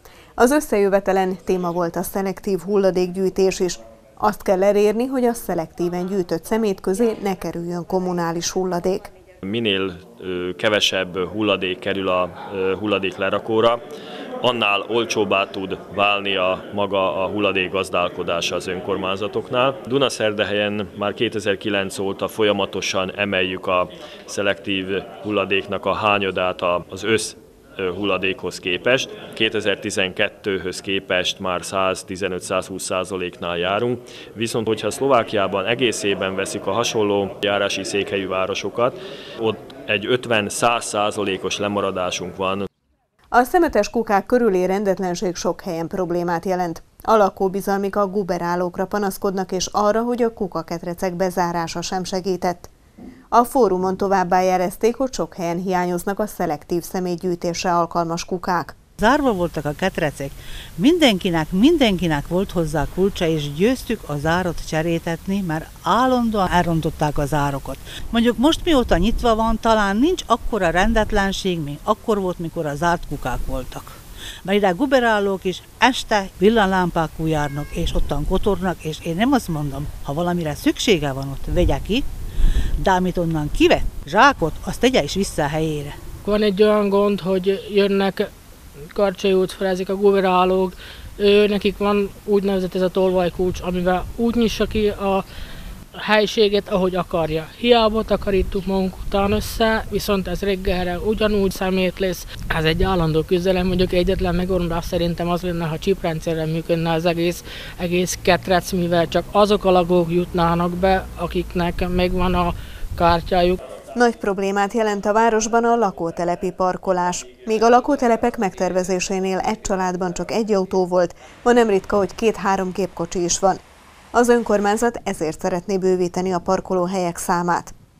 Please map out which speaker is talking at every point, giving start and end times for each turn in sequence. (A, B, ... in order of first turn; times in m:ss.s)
0:00.4-0:09.1 A
0:09.4-0:13.8 B
0:14.4-0:42.7 B
0:43.3-0:52.7 A
0:53.3-0:58.8 A
0:59.0-1:22.0 C
1:22.8-1:26.0 C
1:26.2-1:28.3 D
1:28.9-1:35.2 D
1:36.0-1:53.6 D
1:53.9-2:03.6 A
2:04.1-2:07.7 A